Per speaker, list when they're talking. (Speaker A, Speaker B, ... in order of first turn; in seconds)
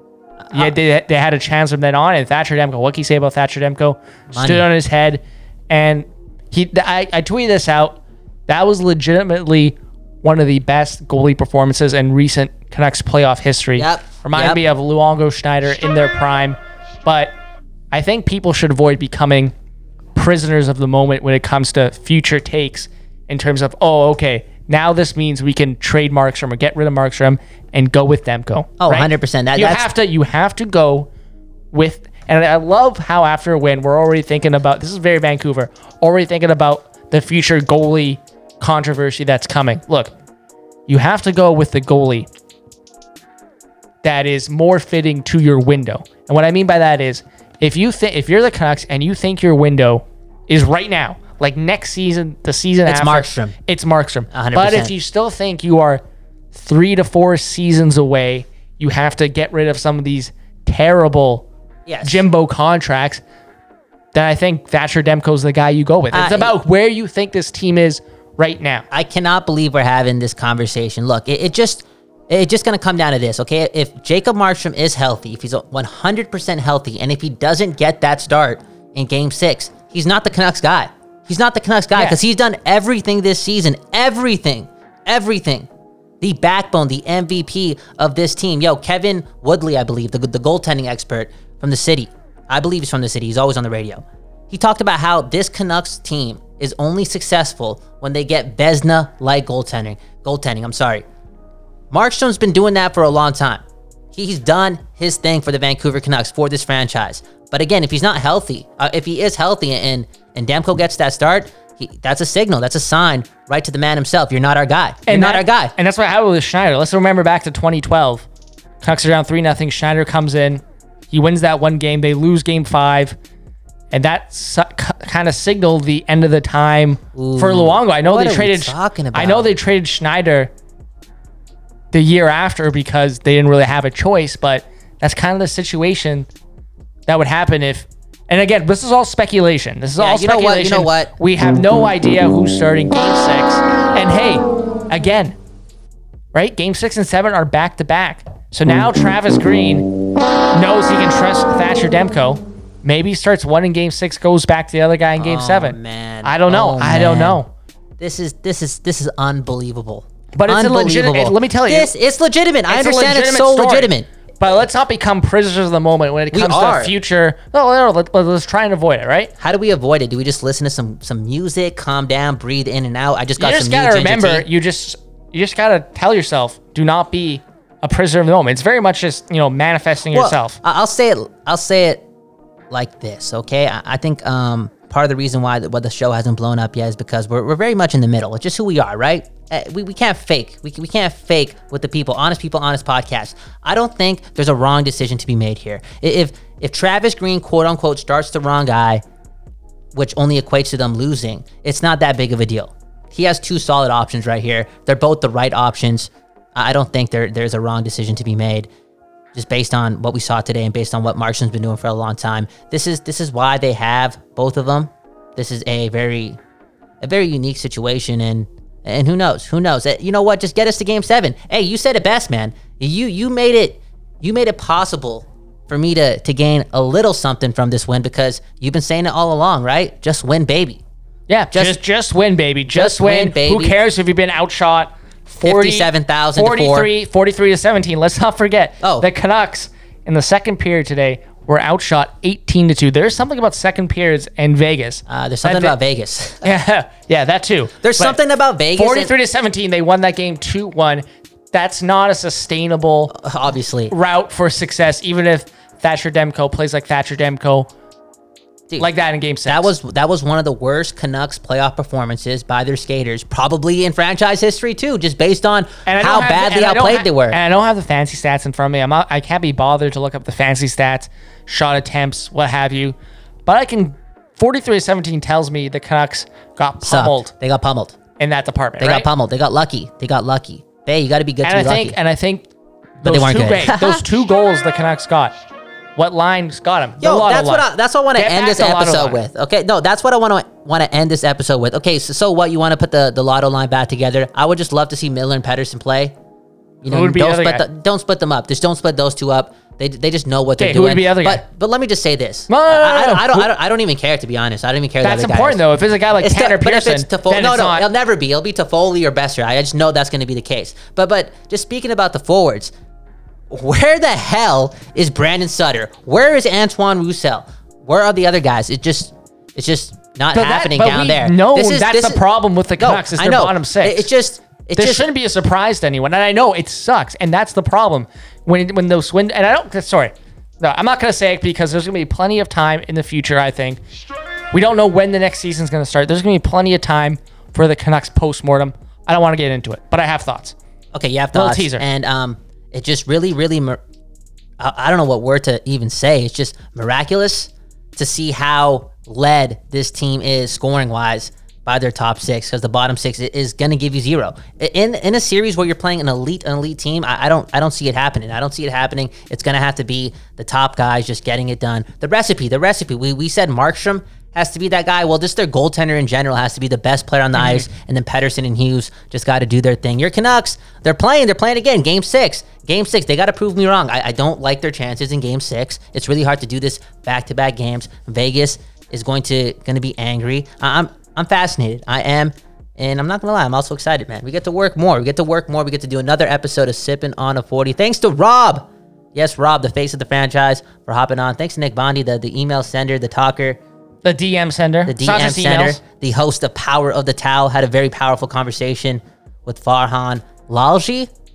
Speaker A: 0.5-17.3, 17.9-19.5, 20.1-31.1, 31.7-40.1, 40.9-42.3, 44.0-56.0, 56.5-61.5, 62.0-63.2, 64.1-68.8, 115.1-118.3, 118.8-123.2, 123.9-130.5, 131.9-136.3, 137.1-145.4, 146.3-149.9, 150.5-157.5, 160.3-161.9, 162.7-169.3, 173.4-180.6, 231.3-245.8, 246.4-248.2, 248.7-253.1, 253.9-257.7, 258.8-259.7, 265.9-277.3, 278.2-279.1, 281.4-282.4, 283.0-285.3, 285.9-289.2, 296.9-297.6, 300.6-301.4, 302.5-303.5, 305.0-307.8, 320.3-324.1, 324.8-333.8, 334.5-340.6, 341.3-341.8, 367.4-367.6, 394.0-395.8
Speaker B: 4.3-4.7, 13.8-14.6, 28.8-29.9, 52.9-53.5, 54.3-54.9, 61.9-62.2, 66.1-66.5, 68.9-85.7, 86.2-101.0, 101.9-115.7, 127.1-129.5, 140.0-141.1, 155.2-157.4, 158.0-164.1, 166.3-166.9, 169.4-174.4, 180.1-182.0, 182.7-199.0, 199.9-208.7, 209.3-216.4, 217.0-230.8, 231.5-231.8, 232.7-233.8, 235.4-236.9, 238.8-239.1, 245.1-246.5, 247.8-249.1, 253.1-253.9, 259.4-267.4, 276.8-278.0, 278.8-282.0, 283.0-284.0, 287.0-296.1, 296.8-305.6, 306.2-312.7, 313.5-322.2, 322.8-325.1, 340.9-343.8, 344.6-393.6, 394.9-401.1